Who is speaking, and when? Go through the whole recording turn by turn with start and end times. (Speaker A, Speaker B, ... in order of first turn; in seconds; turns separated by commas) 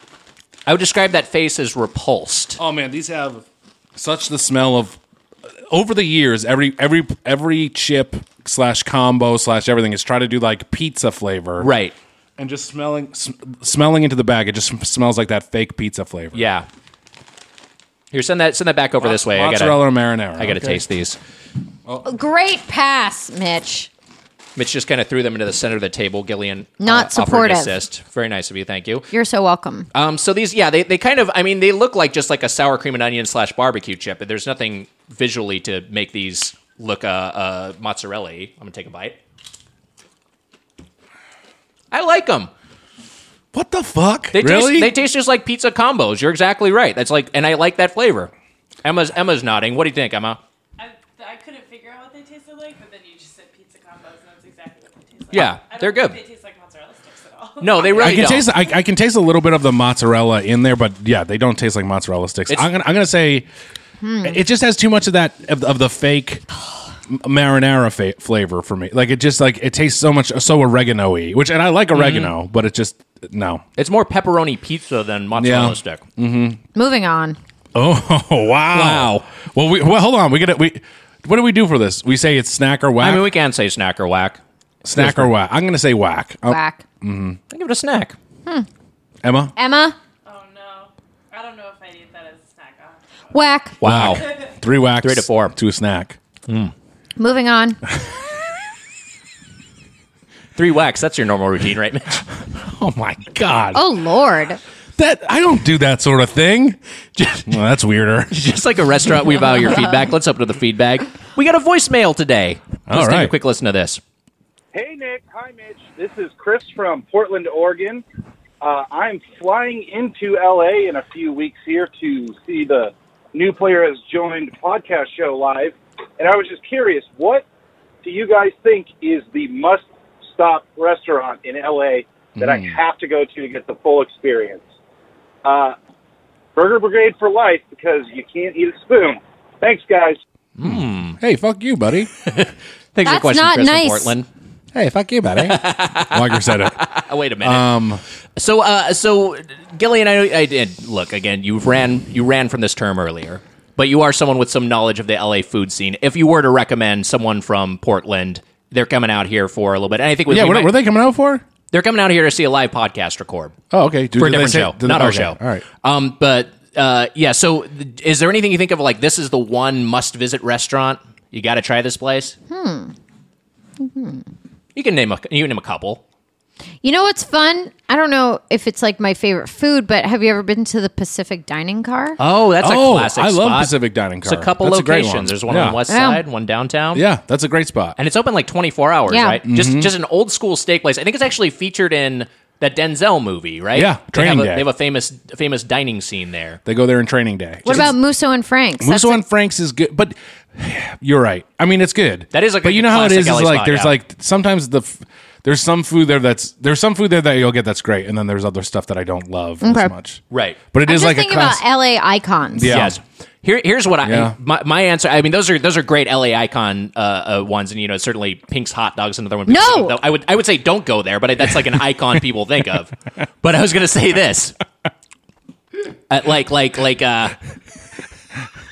Speaker A: 0.7-2.6, Speaker B: 2.6-3.5, Speaker B: 4.0-5.0, Speaker B: 5.7-11.7, Speaker A: 11.6-11.9, Speaker B: 12.4-16.5, Speaker A: 16.4-16.7, Speaker A: 18.1-21.2, Speaker B: 19.0-20.8, Speaker C: 22.1-23.9, Speaker A: 24.6-29.1, Speaker C: 26.8-27.8, Speaker C: 29.1-29.9, Speaker A: 29.9-39.2, Speaker A: 41.9-42.5, Speaker B: 43.5-45.0, Speaker A: 44.3-48.3, Speaker A: 48.8-50.4, Speaker D: 50.8-58.4, Speaker A: 55.3-56.2, Speaker A: 57.6-58.5, Speaker B: 58.0-63.5, Speaker C: 64.0-64.3, Speaker B: 64.2-66.5, Speaker B: 67.1-73.6, Speaker A: 71.9-72.3, Speaker A: 73.8-76.0, Speaker B: 75.4-76.6, Speaker C: 76.8-77.4, Speaker B: 77.8-83.3, Speaker A: 78.7-79.2, Speaker A: 83.0-84.4, Speaker B: 84.8-87.4, Speaker A: 85.0-85.3, Speaker C: 86.5-86.8, Speaker A: 87.5-88.2, Speaker B: 89.2-89.5, Speaker C: 89.6-90.0, Speaker D: 90.2-93.0, Speaker C: 93.3-93.8, Speaker A: 93.8-94.3, Speaker B: 93.8-96.2, Speaker A: 95.0-95.5, Speaker A: 96.5-96.7, Speaker C: 97.2-97.8, Speaker A: 100.6-102.2, Speaker B: 102.6-103.8, Speaker C: 103.7-104.6, Speaker B: 105.0-106.8, Speaker A: 107.2-107.5, Speaker B: 107.5-108.4, Speaker A: 108.3-114.0, Speaker B: 112.9-113.3, Speaker E: 114.7-118.0, Speaker E: 118.6-127.5, Speaker E: 128.0-134.6, Speaker B: 132.4-132.8, Speaker E: 135.4-135.8, Speaker E: 136.6-140.2, Speaker A: 140.6-141.2, Speaker B: 140.6-142.1, Speaker A: 142.2-144.3, Speaker C: 143.1-144.1, Speaker B: 144.7-146.8, Speaker A: 145.4-147.8, Speaker B: 147.4-148.0, Speaker A: 148.4-160.8, Speaker B: 160.3-161.4, Speaker A: 161.7-163.6, Speaker B: 163.7-165.7, Speaker A: 164.2-172.4, Speaker C: 172.5-172.9, Speaker C: 173.8-174.2, Speaker A: 174.8-176.0, Speaker C: 176.8-182.2, Speaker A: 182.2-187.1, Speaker B: 182.6-185.8, Speaker C: 185.9-186.2, Speaker B: 186.9-188.0, Speaker A: 188.0-196.6, Speaker C: 189.1-189.4, Speaker B: 189.5-189.9, Speaker B: 193.7-194.7, Speaker B: 196.7-197.9, Speaker C: 197.7-199.2, Speaker B: 198.8-210.2, Speaker A: 202.3-203.9, Speaker C: 209.6-209.9, Speaker A: 210.3-210.6, Speaker B: 210.7-211.6, Speaker C: 210.8-212.7, Speaker B: 212.6-213.0, Speaker A: 212.7-224.6, Speaker B: 214.0-214.3, Speaker C: 219.5-220.0, Speaker A: 226.1-227.4